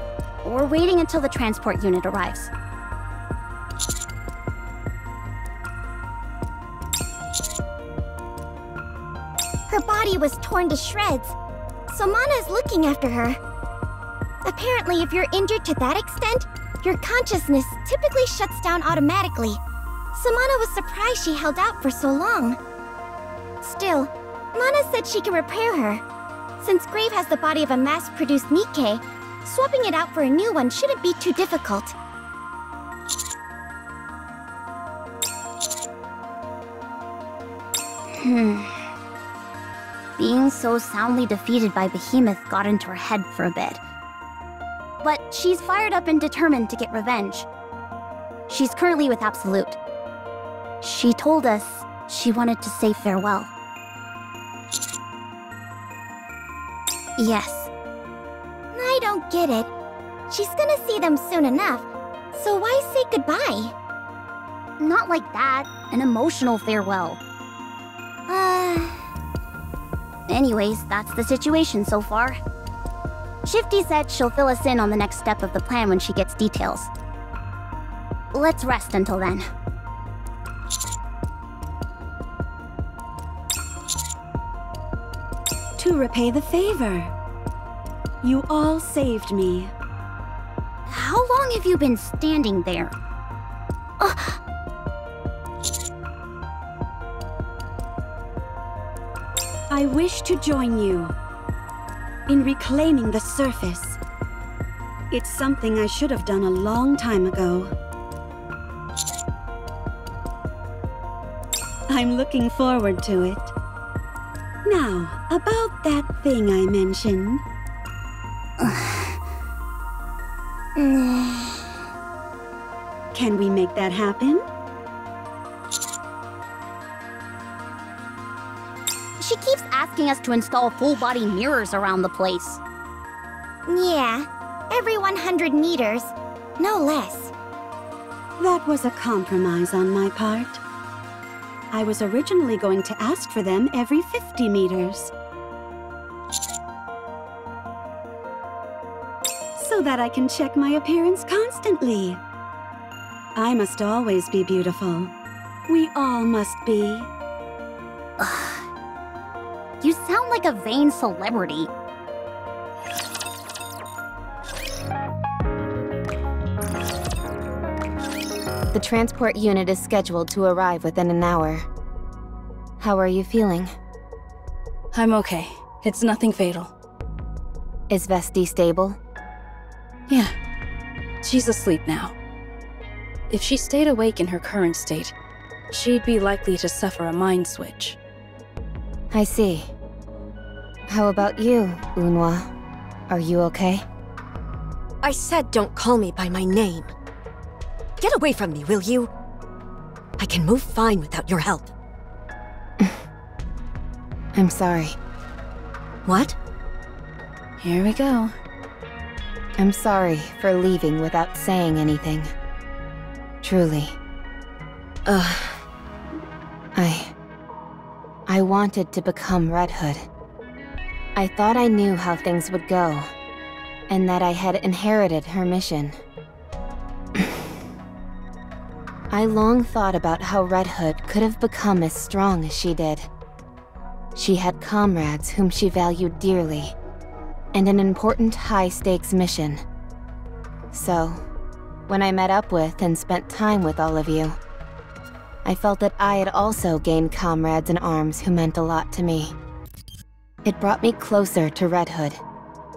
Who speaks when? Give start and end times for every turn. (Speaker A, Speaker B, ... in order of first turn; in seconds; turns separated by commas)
Speaker A: 0.4-2.5, Speaker B: 9.7-11.3, Speaker B: 11.9-13.4, Speaker B: 14.4-19.6, Speaker B: 20.1-22.6, Speaker B: 23.6-26.0, Speaker B: 26.6-31.9, Speaker A: 38.1-38.9, Speaker A: 40.2-43.8, Speaker A: 45.0-47.5, Speaker A: 48.5-49.8, Speaker A: 50.8-53.5, Speaker A: 57.2-57.7, Speaker B: 58.7-59.7, Speaker B: 60.3-63.7, Speaker A: 64.8-67.2, Speaker A: 68.3-69.0, Speaker A: 70.3-72.4, Speaker A: 73.5-76.9, Speaker A: 78.3-79.5, Speaker C: 85.8-87.1, Speaker C: 88.2-89.7, Speaker A: 90.9-92.9, Speaker A: 94.0-94.4, Speaker C: 99.7-101.1, Speaker C: 102.3-104.0, Speaker C: 105.1-107.7, Speaker C: 111.9-113.5, Speaker C: 114.6-117.4, Speaker A: 118.6-119.2, Speaker A: 120.8-121.6, Speaker C: 123.1-124.4, Speaker A: 129.2-132.6, Speaker B: 133.7-137.3, Speaker C: 138.4-140.6, Speaker C: 141.7-145.1, Speaker C: 149.5-152.2, Speaker C: 153.3-155.1, Speaker C: 155.7-157.1, Speaker A: 158.2-158.7, Speaker A: 159.8-161.7, Speaker D: 168.7-171.7, Speaker D: 172.8-173.7, Speaker E: 174.9-176.7, Speaker D: 177.9-179.0, Speaker E: 180.1-180.3, Speaker E: 181.2-182.1, Speaker E: 183.3-185.1, Speaker E: 185.7-188.0, Speaker D: 189.1-189.7, Speaker D: 190.9-192.5, Speaker D: 193.1-193.8, Speaker F: 195.0-196.9, Speaker F: 198.0-199.1, Speaker F: 200.2-201.7, Speaker D: 204.3-205.0, Speaker F: 206.0-206.3, Speaker E: 207.6-208.3, Speaker D: 209.6-212.3, Speaker D: 213.4-214.0, Speaker F: 215.1-215.6, Speaker D: 216.7-217.1, Speaker D: 218.3-220.1, Speaker D: 221.2-223.1, Speaker D: 223.9-226.0, Speaker D: 229.1-233.1, Speaker D: 234.1-236.8, Speaker D: 237.5-239.6, Speaker D: 240.7-241.2, Speaker D: 241.9-244.4, Speaker D: 245.4-249.3, Speaker D: 250.4-252.2